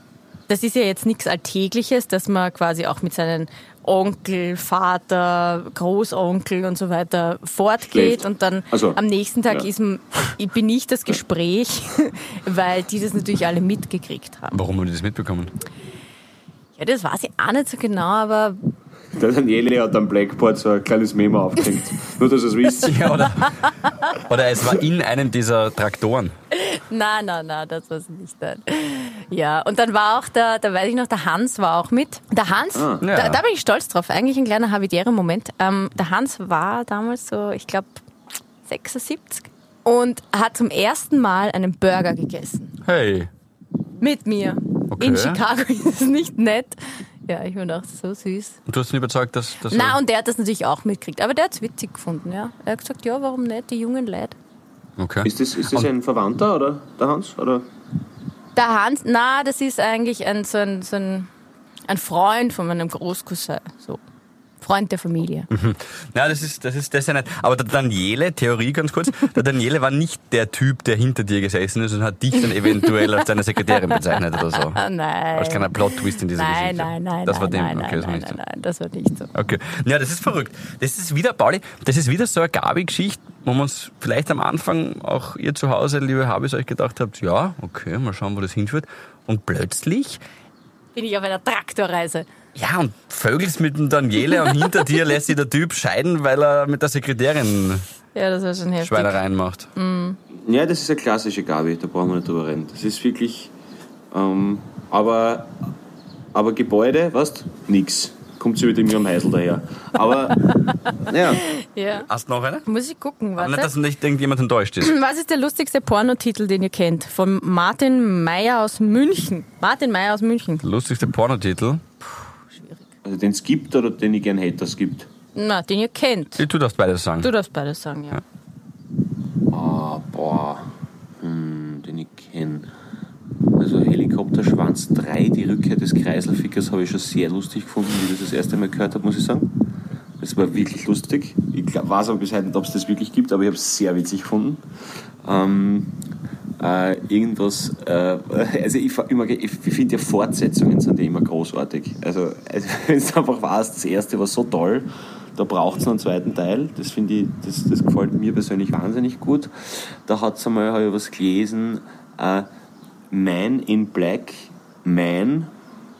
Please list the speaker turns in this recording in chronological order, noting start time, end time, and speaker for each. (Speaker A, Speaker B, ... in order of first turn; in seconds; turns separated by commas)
Speaker A: 0.5-14.6, Speaker B: 7.9-9.7, Speaker C: 14.5-15.5, Speaker A: 16.8-18.6, Speaker B: 19.1-23.1, Speaker C: 22.8-26.3, Speaker A: 26.5-38.0, Speaker B: 32.7-33.0, Speaker C: 33.0-33.4, Speaker A: 38.6-42.8, Speaker C: 42.9-43.3, Speaker A: 44.0-48.6, Speaker C: 44.9-45.4, Speaker C: 48.7-50.0, Speaker A: 49.7-54.3, Speaker C: 55.0-55.9, Speaker B: 55.2-57.7, Speaker A: 58.5-61.3, Speaker A: 61.9-64.0, Speaker A: 64.6-65.5, Speaker C: 65.5-74.8, Speaker A: 72.4-79.3, Speaker C: 75.3-78.4, Speaker C: 79.3-90.2, Speaker A: 91.0-92.3, Speaker C: 92.5-97.8, Speaker A: 98.1-99.2, Speaker C: 98.8-99.7, Speaker A: 99.8-100.2, Speaker B: 100.3-103.5, Speaker B: 104.1-105.6, Speaker B: 106.3-111.4, Speaker A: 111.4-112.1, Speaker C: 111.9-112.7, Speaker A: 112.7-113.7, Speaker C: 113.4-115.0, Speaker A: 114.8-120.6, Speaker C: 120.6-121.8, Speaker A: 122.0-122.8, Speaker B: 123.0-125.1, Speaker A: 125.3-126.4, Speaker C: 126.4-127.3, Speaker A: 127.2-128.2, Speaker B: 129.5-132.7, Speaker B: 133.6-139.5, Speaker B: 140.2-144.6, Speaker B: 145.2-145.9, Speaker B: 146.6-162.5, Speaker B: 163.1-165.5